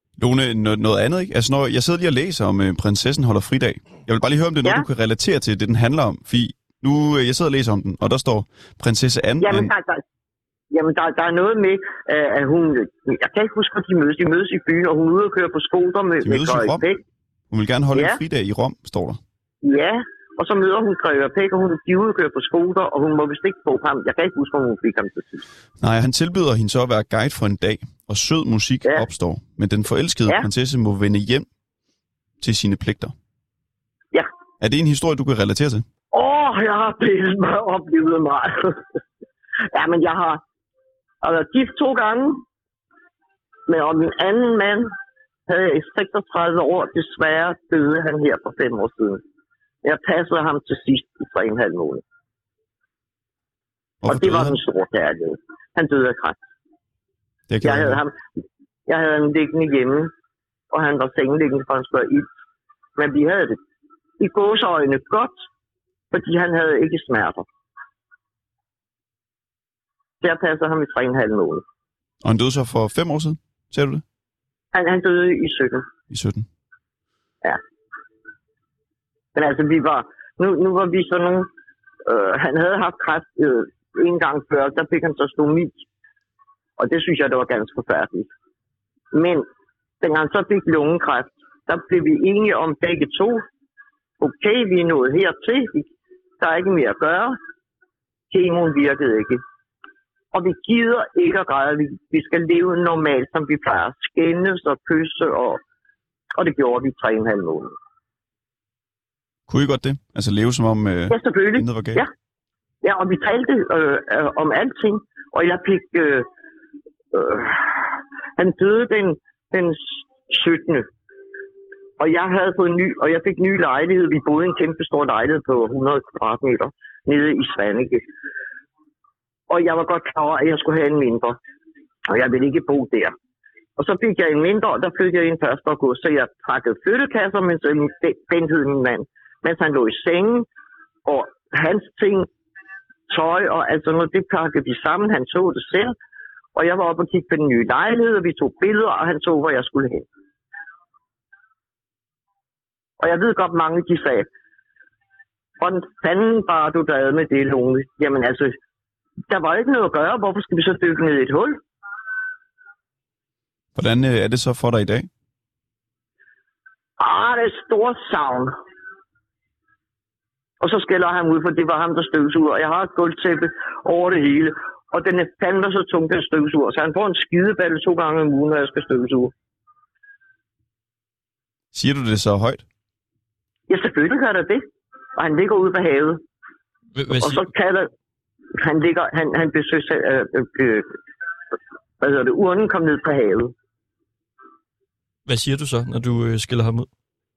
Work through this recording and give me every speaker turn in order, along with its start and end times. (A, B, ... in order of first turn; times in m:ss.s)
0:00.2-0:09.7 A
0:09.4-0:10.0 B
0:10.7-0:17.0 B
0:16.2-0:16.8 A
0:17.5-0:19.2 A
0:17.9-0:18.2 B
0:19.6-0:25.4 B
0:25.8-0:31.4 A
0:32.4-0:33.1 A
0:34.6-0:35.8 A
0:36.1-0:38.8 B
0:39.7-0:40.4 B
0:41.2-0:42.4 B
0:43.7-0:44.9 B
0:45.5-0:49.2 B
0:49.8-0:52.0 B
0:54.0-0:54.6 A
0:54.0-0:56.4 B
0:57.5-0:58.0 A
0:57.6-0:58.2 B
0:58.9-1:00.1 B
1:00.7-1:02.3 B
1:03.0-1:03.6 B
1:04.2-1:05.4 B
1:06.1-1:07.4 B
1:10.2-1:11.6 B
1:12.2-1:14.0 A
1:14.7-1:15.8 B
1:16.1-1:16.4 A
1:19.3-1:21.5 B
1:22.0-1:25.8 B
1:26.8-1:28.3 B
1:29.1-1:29.4 B
1:30.0-1:33.4 B
1:34.2-1:35.9 B
1:36.4-1:37.4 B
1:38.3-1:39.4 B
1:40.3-1:45.6 B
1:46.4-1:47.7 B
1:49.5-1:52.0 A
1:51.1-1:52.1 B
1:52.8-1:56.3 B
1:57.1-2:00.9 B
2:02.0-2:08.0 B
2:09.5-2:11.4 B
2:12.1-2:13.1 B
2:13.8-2:20.4 B
2:21.0-2:22.3 B
2:23.1-2:25.9 B
2:26.5-2:30.0 B
2:33.0-2:34.3 B
2:35.6-2:38.6 B
2:39.3-2:41.6 B
2:43.7-2:45.1 A
2:47.0-2:48.5 B
2:50.6-2:59.3 B
3:01.7-3:02.6 A
3:03.7-3:04.6 B
3:05.2-3:06.2 B
3:07.0-3:07.4 C
3:07.2-3:07.9 B
3:08.6-3:10.9 B
3:12.0-3:13.5 B
3:15.2-3:16.9 C